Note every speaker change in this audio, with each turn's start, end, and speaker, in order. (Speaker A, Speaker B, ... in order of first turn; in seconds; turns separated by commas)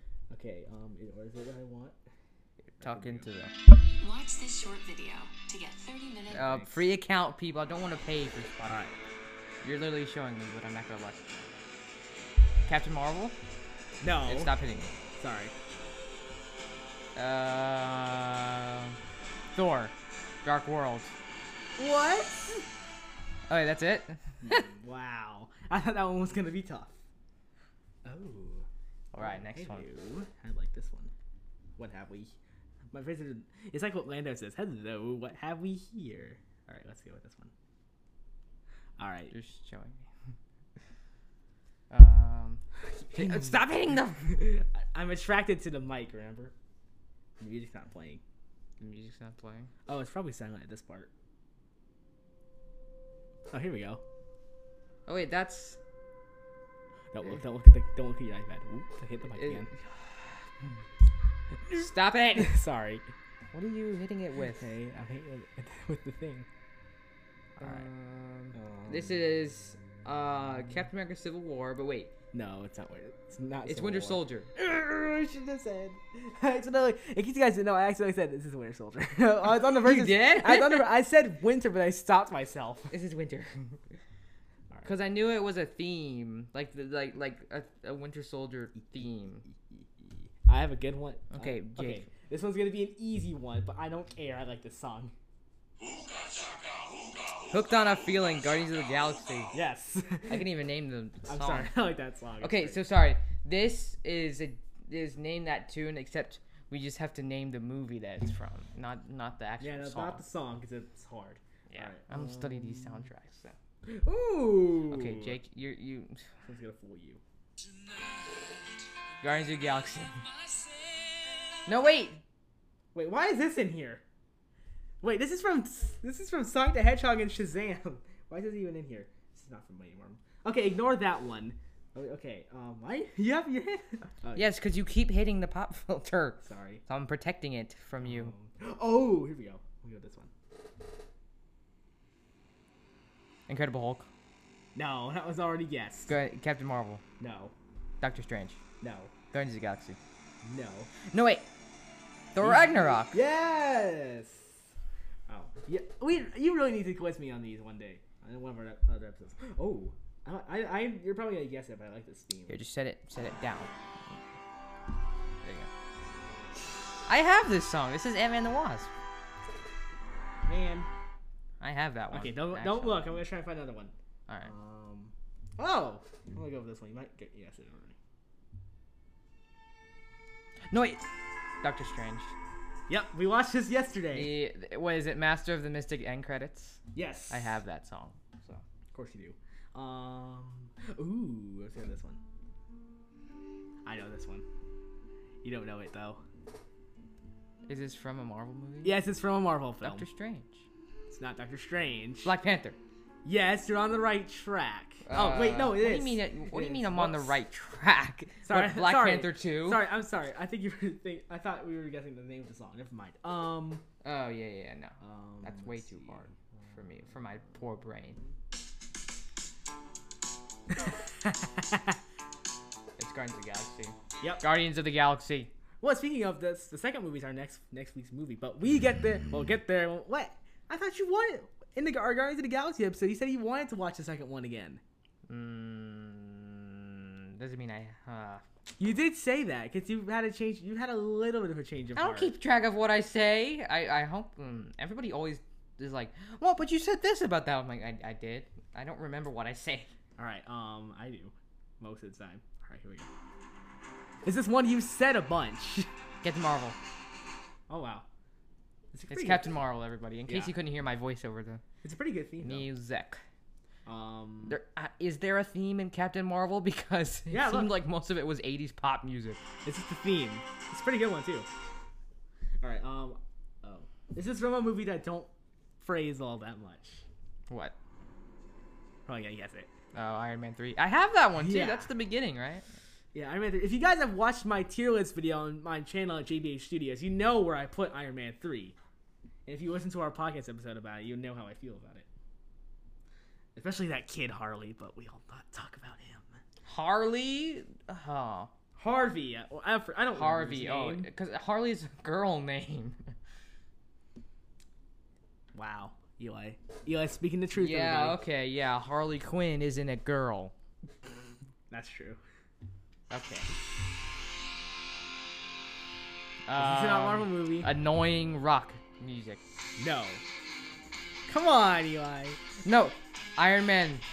Speaker A: 0.3-1.9, Speaker A: 2.7-3.3, Speaker B: 2.8-3.5, Speaker C: 4.0-6.5, Speaker A: 6.3-6.8, Speaker B: 6.3-8.8, Speaker A: 8.7-8.9, Speaker B: 9.6-11.2, Speaker B: 12.6-13.4, Speaker A: 14.0-14.5, Speaker B: 14.2-14.9, Speaker A: 15.2-15.5, Speaker B: 17.1-19.0, Speaker B: 19.5-21.1, Speaker A: 21.8-22.6, Speaker B: 23.5-24.7, Speaker A: 24.4-26.9, Speaker A: 28.0-28.6, Speaker B: 29.1-29.9, Speaker A: 29.2-31.1, Speaker A: 31.8-32.3, Speaker A: 32.9-37.5, Speaker A: 39.0-39.3, Speaker B: 39.3-40.0, Speaker B: 41.9-44.4, Speaker A: 43.1-46.5, Speaker A: 47.4-48.2, Speaker B: 48.8-49.7, Speaker A: 49.9-51.1, Speaker A: 53.5-54.0, Speaker B: 55.0-55.8, Speaker A: 57.1-59.7, Speaker B: 59.3-59.9, Speaker B: 61.6-62.6, Speaker A: 62.4-63.0, Speaker B: 63.5-64.7, Speaker A: 64.5-66.5, Speaker A: 67.6-67.9, Speaker B: 67.6-72.1, Speaker A: 68.5-69.1, Speaker A: 72.3-82.9, Speaker B: 73.6-74.5, Speaker B: 79.6-80.8, Speaker B: 82.9-83.8, Speaker B: 84.8-89.4, Speaker A: 89.7-95.1, Speaker B: 91.3-92.0, Speaker B: 97.5-99.5, Speaker A: 99.5-100.4, Speaker B: 100.3-101.7, Speaker A: 101.3-102.8, Speaker B: 102.4-110.2, Speaker A: 109.6-112.9, Speaker B: 111.7-113.5, Speaker A: 113.9-115.4, Speaker B: 114.9-116.2, Speaker A: 116.4-117.2, Speaker B: 119.2-120.3, Speaker B: 121.7-122.2, Speaker A: 122.9-124.0, Speaker A: 125.0-134.5, Speaker B: 134.3-138.3, Speaker A: 136.4-136.8, Speaker A: 138.0-140.3, Speaker B: 143.5-144.1, Speaker A: 144.7-146.1, Speaker B: 146.1-147.0, Speaker A: 147.2-147.5, Speaker B: 148.0-148.6, Speaker A: 148.8-149.1, Speaker B: 149.3-150.0, Speaker A: 150.4-150.9, Speaker B: 151.1-151.5, Speaker B: 152.3-153.2, Speaker A: 152.4-154.5, Speaker A: 155.3-162.6, Speaker B: 162.5-164.2, Speaker B: 165.4-165.7, Speaker B: 167.1-168.9, Speaker A: 170.4-170.9, Speaker B: 171.6-173.2, Speaker A: 172.1-173.9, Speaker B: 174.3-174.5, Speaker A: 174.4-177.9, Speaker B: 180.7-181.0, Speaker B: 181.6-182.3, Speaker A: 182.9-184.3, Speaker B: 184.1-188.6, Speaker A: 186.9-187.6, Speaker A: 188.9-192.2, Speaker A: 193.8-194.4, Speaker A: 195.4-196.2, Speaker B: 197.7-199.0, Speaker A: 198.8-200.1, Speaker B: 199.8-200.6, Speaker A: 201.1-202.3, Speaker B: 202.2-202.8, Speaker A: 203.2-207.3, Speaker B: 205.0-209.8, Speaker A: 208.4-213.8, Speaker B: 214.0-218.2, Speaker A: 215.0-216.2, Speaker A: 220.8-221.9, Speaker B: 223.0-225.5, Speaker A: 225.8-234.8, Speaker B: 235.3-238.4, Speaker A: 238.8-242.3, Speaker B: 241.9-249.9, Speaker A: 250.2-253.1, Speaker A: 254.2-255.9, Speaker B: 256.2-256.8, Speaker A: 257.7-258.1, Speaker A: 258.9-259.5, Speaker B: 259.1-261.6, Speaker A: 260.3-260.5, Speaker A: 261.8-262.7, Speaker B: 262.4-263.2, Speaker A: 263.9-264.6, Speaker B: 264.4-269.4, Speaker A: 267.3-267.7, Speaker A: 269.6-271.5, Speaker A: 272.6-275.3, Speaker A: 275.8-277.0, Speaker B: 277.5-277.7, Speaker A: 279.1-279.7, Speaker B: 279.9-282.6, Speaker A: 281.4-281.9, Speaker A: 283.1-288.8, Speaker A: 289.4-292.1, Speaker A: 293.5-296.4, Speaker B: 296.7-298.5, Speaker A: 298.8-301.1, Speaker B: 300.1-303.1, Speaker A: 305.5-308.2, Speaker B: 307.5-310.5, Speaker A: 311.7-312.2, Speaker B: 313.1-313.5, Speaker B: 316.4-319.4, Speaker A: 316.6-317.7, Speaker A: 319.8-320.2, Speaker A: 321.3-322.4, Speaker B: 322.6-324.0